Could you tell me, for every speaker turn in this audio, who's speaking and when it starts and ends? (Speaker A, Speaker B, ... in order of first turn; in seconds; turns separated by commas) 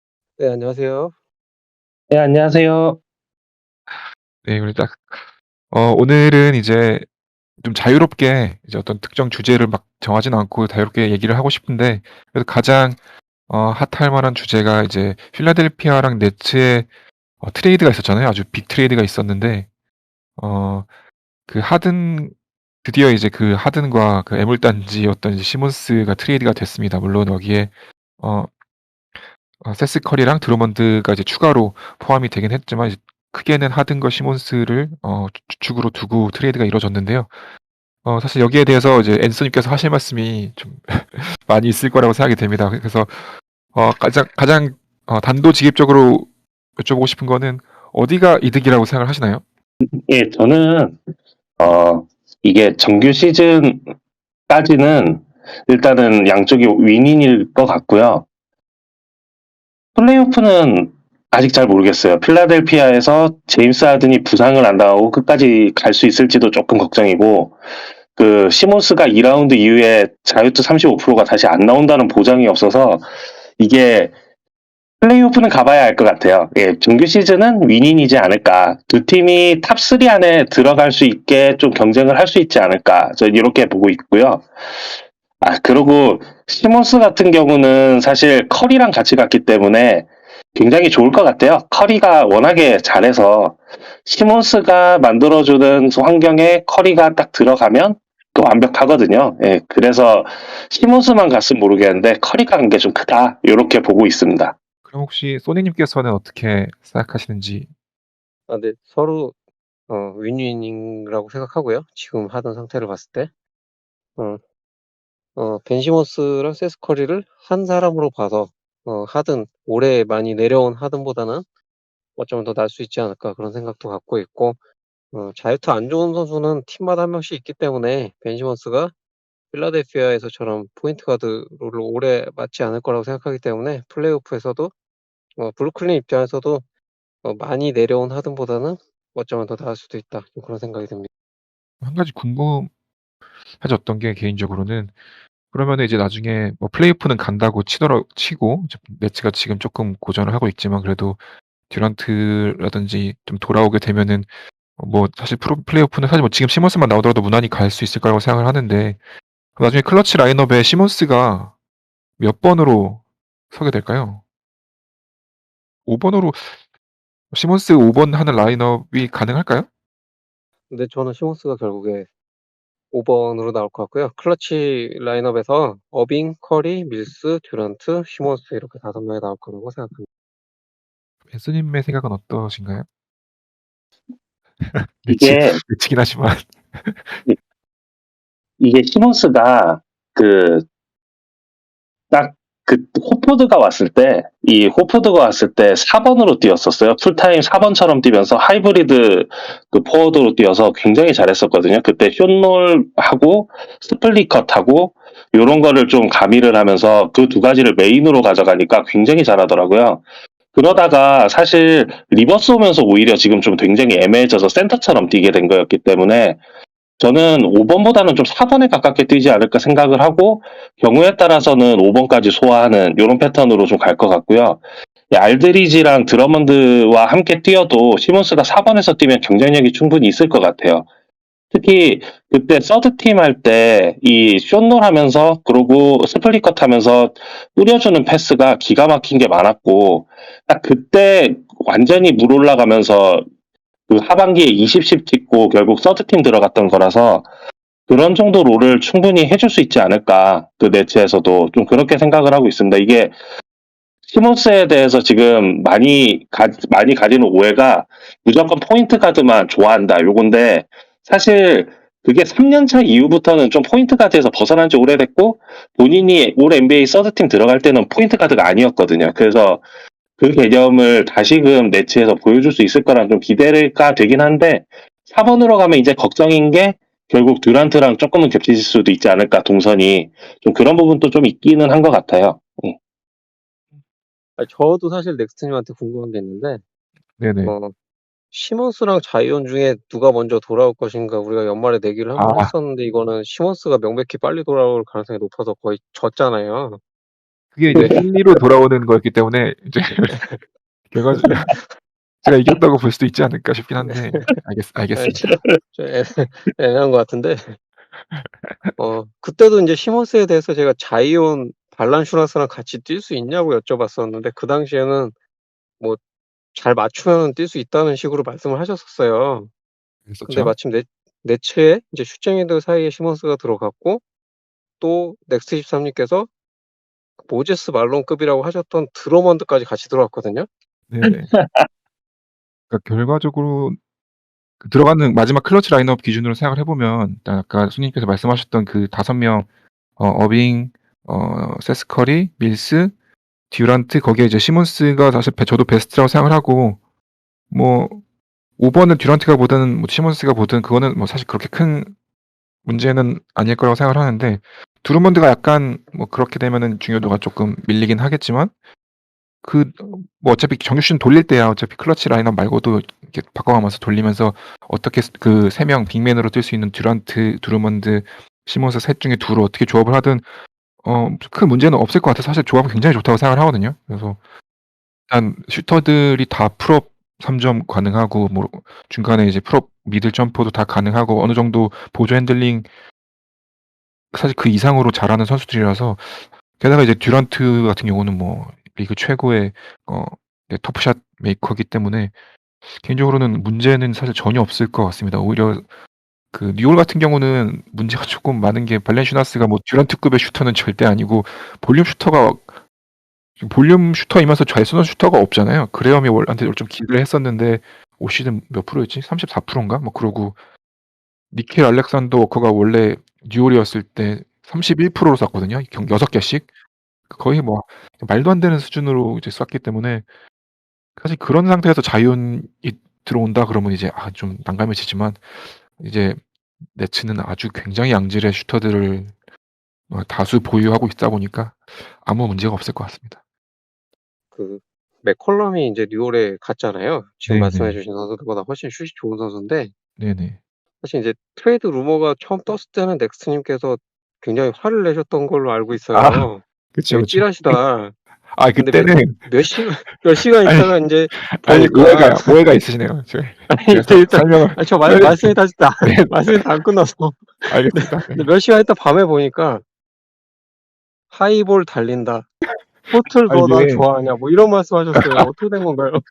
Speaker A: 0.4-1.1, Speaker B: 2.1-3.0, Speaker C: 4.4-7.0, Speaker C: 7.6-16.9, Speaker C: 17.4-19.7, Speaker C: 20.4-20.9, Speaker C: 21.5-28.5, Speaker C: 29.6-37.3, Speaker C: 38.0-49.4, Speaker B: 50.1-51.0, Speaker B: 51.6-53.8, Speaker B: 54.5-58.2, Speaker B: 60.0-67.6, Speaker B: 68.1-73.0, Speaker B: 73.6-74.1, Speaker B: 75.0-84.5, Speaker B: 85.4-104.5, Speaker C: 104.9-107.7, Speaker A: 108.5-109.3, Speaker A: 109.9-113.3, Speaker A: 115.3-121.4, Speaker A: 122.2-124.6, Speaker A: 125.1-128.9, Speaker A: 129.5-134.7, Speaker A: 135.4-136.6, Speaker A: 137.2-141.1, Speaker C: 141.8-142.7, Speaker C: 143.6-144.9, Speaker C: 145.5-159.0, Speaker C: 159.6-161.5, Speaker C: 162.2-164.2, Speaker C: 165.9-166.6, Speaker C: 167.3-169.7, Speaker A: 170.7-172.1, Speaker A: 172.9-180.1, Speaker C: 181.3-182.9, Speaker C: 184.6-187.2, Speaker B: 185.1-185.6, Speaker B: 188.6-190.6, Speaker B: 192.1-216.4, Speaker B: 217.0-230.9, Speaker B: 231.5-243.2, Speaker B: 243.9-247.3, Speaker B: 247.9-253.2, Speaker B: 254.1-269.6, Speaker B: 270.2-282.8, Speaker A: 284.4-286.6, Speaker C: 287.2-287.5, Speaker A: 287.4-287.7, Speaker A: 288.3-296.8, Speaker C: 292.1-292.5, Speaker C: 297.5-300.2, Speaker A: 297.7-298.0, Speaker A: 300.1-300.4, Speaker C: 300.9-301.6, Speaker C: 302.2-305.4, Speaker A: 303.8-304.2, Speaker A: 304.9-307.5, Speaker B: 305.2-305.6, Speaker C: 308.1-308.7, Speaker A: 308.8-315.1, Speaker A: 316.5-319.5, Speaker C: 320.1-320.5, Speaker A: 320.3-324.0, Speaker A: 324.8-326.3, Speaker A: 327.2-330.5, Speaker C: 330.9-331.3, Speaker B: 331.0-331.7, Speaker C: 332.7-333.8, Speaker C: 334.6-342.9, Speaker C: 343.5-346.8, Speaker C: 347.5-348.0, Speaker C: 348.6-351.9, Speaker C: 352.6-358.5, Speaker C: 359.4-370.3, Speaker C: 370.8-374.2, Speaker C: 375.1-382.7, Speaker C: 384.1-392.1, Speaker C: 392.8-395.6, Speaker C: 396.3-402.5, Speaker C: 403.4-410.4, Speaker C: 411.3-416.5, Speaker C: 417.1-420.1, Speaker C: 420.9-426.2, Speaker C: 426.7-429.1, Speaker C: 429.9-433.2, Speaker A: 434.3-439.7, Speaker C: 437.2-437.8, Speaker C: 440.0-440.4, Speaker A: 440.8-447.9, Speaker C: 445.9-447.6, Speaker C: 448.3-449.6, Speaker A: 448.6-452.4, Speaker C: 450.4-456.4, Speaker A: 453.5-459.6, Speaker C: 457.5-458.3, Speaker A: 461.1-462.3, Speaker C: 462.9-463.9, Speaker A: 462.9-466.0, Speaker C: 464.9-465.3